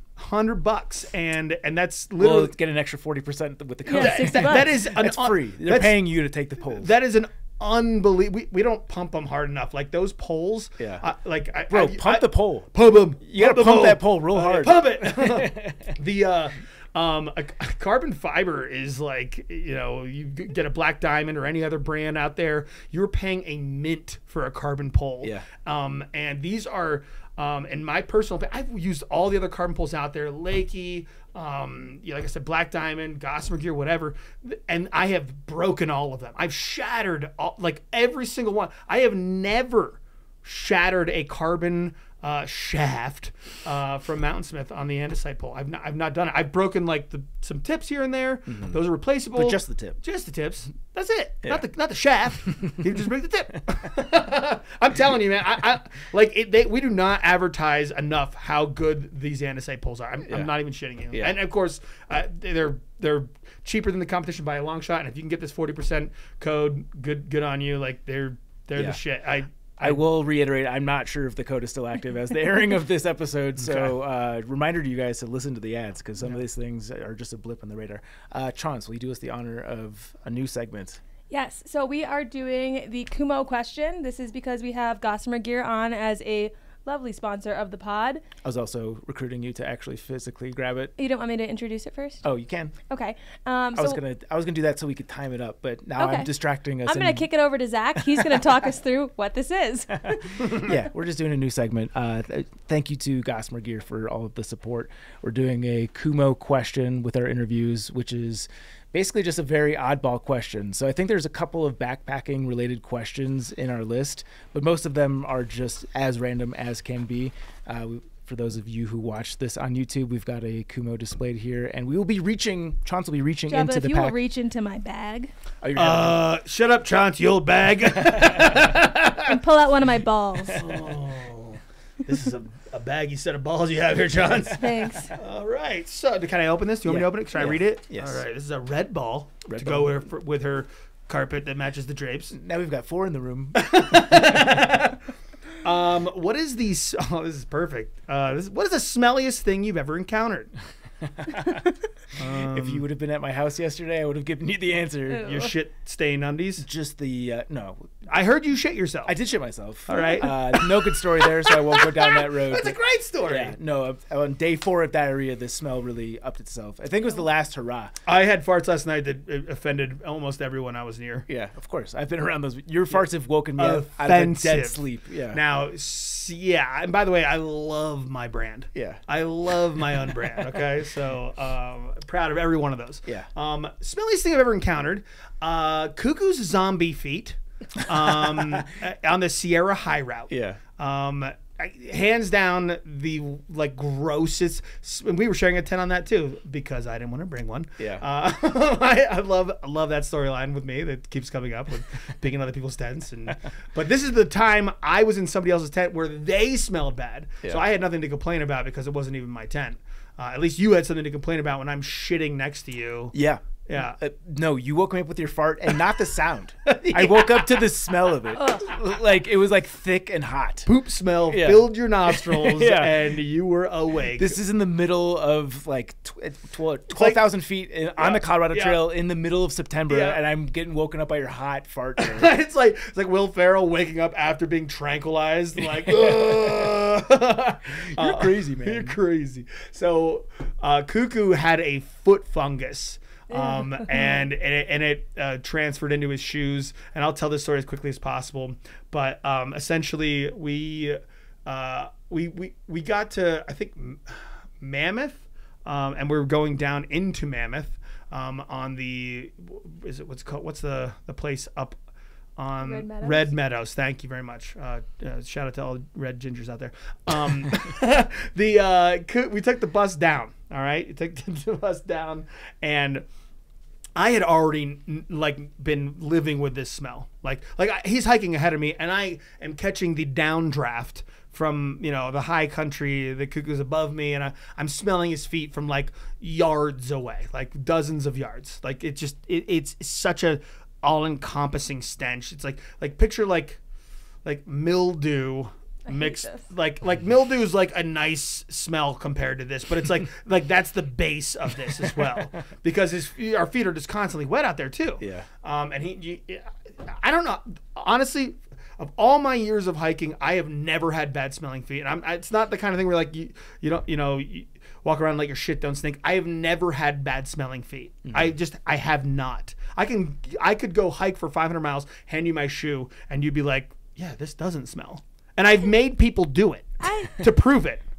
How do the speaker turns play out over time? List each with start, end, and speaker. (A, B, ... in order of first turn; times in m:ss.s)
0:00.2-0:02.5 A
0:02.2-0:06.9 B
0:03.9-0:04.7 C
0:04.0-0:06.0 A
0:06.6-1:10.0 A
0:10.8-0:11.0 B
0:11.7-0:12.7 B
0:13.2-0:15.9 B
0:49.3-0:50.0 B
1:00.2-1:00.5 B
1:01.1-1:01.4 B
1:09.8-1:21.0 B
1:13.6-1:13.9 A
1:21.3-1:28.2 C
1:28.4-1:30.9 B
1:31.0-1:32.2 C
1:32.2-1:32.7 B
1:32.9-1:34.0 C
1:33.8-1:37.3 B
1:36.0-1:36.3 C
1:36.8-1:40.7 C
1:38.0-1:38.4 B
1:40.0-2:04.2 B
2:03.5-2:05.3 C
2:05.6-2:06.2 B
2:05.8-2:09.3 A
2:08.1-2:08.5 B
2:09.2-2:10.6 C
2:10.5-2:22.3 A
2:14.5-2:15.1 C
2:16.8-2:18.2 B
2:19.4-2:19.9 B
2:22.3-2:24.7 B
2:23.5-2:25.0 A
2:25.6-2:30.5 A
2:31.0-2:31.6 B
2:32.2-2:32.8 A
2:32.2-2:35.3 B
2:35.1-2:35.5 C
2:35.2-2:36.6 A
2:36.6-2:37.9 B
2:38.1-2:39.1 A
2:39.0-2:47.9 B
2:39.9-2:43.5 A
2:48.0-2:51.3 A
2:51.3-2:55.4 B
2:53.6-3:33.1 A
2:58.7-2:59.0 B
3:07.9-3:08.7 B
3:10.3-3:10.6 B
3:17.8-3:18.0 B
3:33.1-3:40.7 B
3:33.6-3:34.0 A
3:36.6-3:37.7 A
3:40.6-3:44.4 A
3:41.3-3:43.1 B
3:44.2-3:52.3 B
3:46.9-3:47.2 A
3:48.0-3:48.8 A
3:49.9-3:50.2 A
3:52.0-4:21.8 A
3:55.8-3:56.8 B
3:57.7-3:59.0 B
4:03.3-4:04.2 C
4:22.4-4:33.0 A
4:22.6-4:23.3 C
4:34.0-4:53.6 A
4:54.2-5:27.8 A
4:55.9-4:56.4 C
5:05.0-5:05.3 B
5:18.1-5:18.3 B
5:26.8-5:27.1 C